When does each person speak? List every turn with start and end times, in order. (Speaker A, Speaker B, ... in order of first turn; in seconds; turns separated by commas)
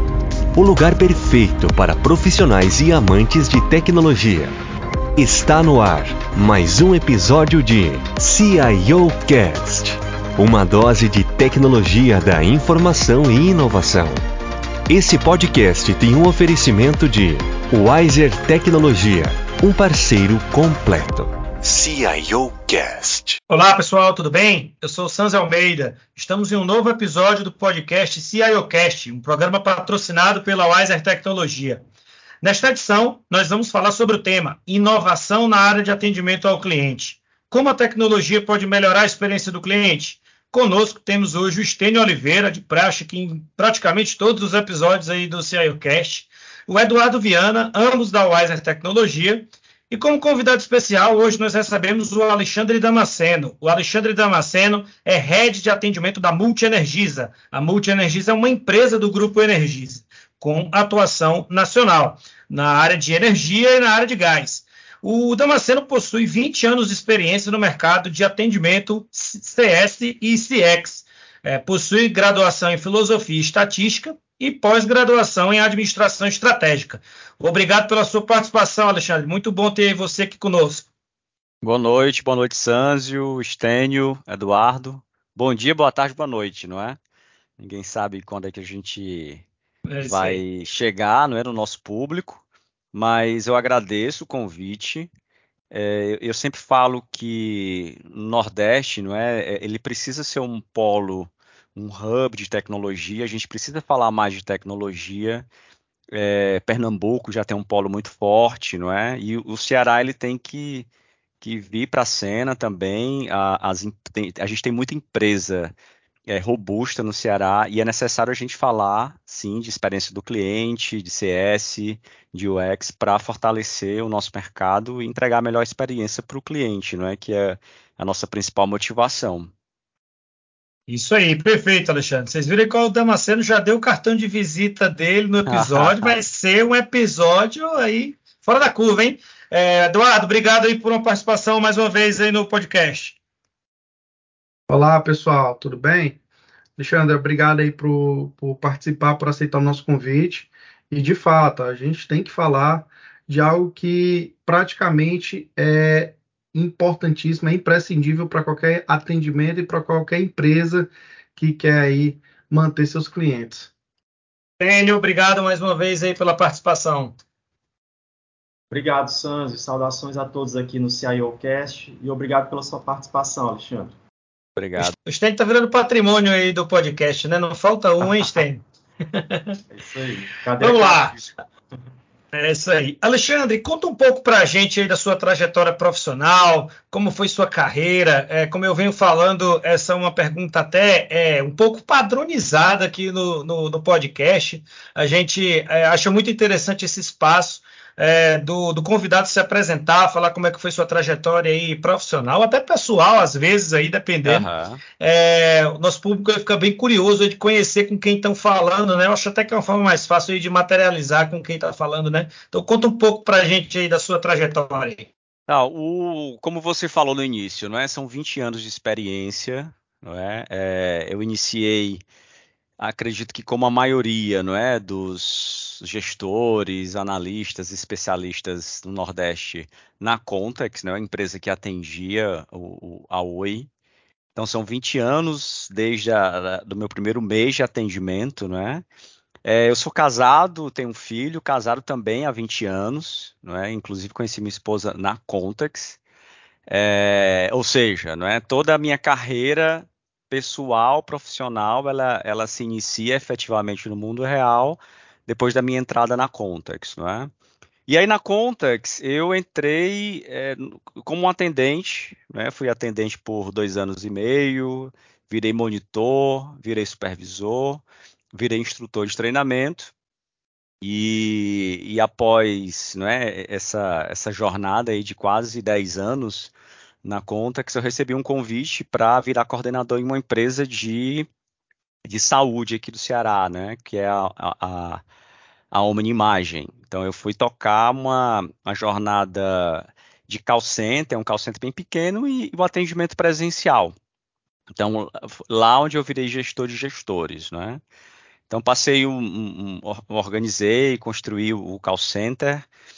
Speaker A: 0.5-4.6, Speaker A: 5.2-14.2, Speaker A: 14.9-23.4, Speaker B: 23.5-31.8, Speaker B: 32.4-80.9, Speaker C: 81.6-87.0, Speaker C: 87.6-89.5, Speaker B: 89.9-90.4, Speaker C: 90.0-92.4, Speaker C: 92.9-95.1, Speaker C: 95.7-105.5, Speaker C: 106.1-110.9, Speaker C: 111.4-115.8, Speaker C: 116.3-129.5, Speaker B: 130.9-143.2, Speaker C: 135.5-136.2, Speaker D: 144.7-146.2, Speaker D: 146.8-163.7, Speaker B: 164.6-167.2, Speaker E: 168.7-173.9, Speaker C: 174.6-174.9, Speaker B: 174.8-179.6, Speaker E: 179.7-181.3, Speaker B: 180.6-181.2, Speaker B: 182.3-204.5, Speaker C: 204.2-204.8, Speaker B: 205.0-215.1, Speaker C: 215.5-222.0, Speaker C: 222.8-233.7, Speaker C: 234.3-238.8, Speaker C: 239.4-246.0, Speaker C: 246.7-257.3, Speaker C: 257.9-269.9, Speaker C: 270.8-276.5, Speaker C: 277.0-281.3, Speaker C: 282.1-285.0, Speaker C: 285.7-293.9, Speaker C: 294.8-297.8, Speaker C: 298.5-302.7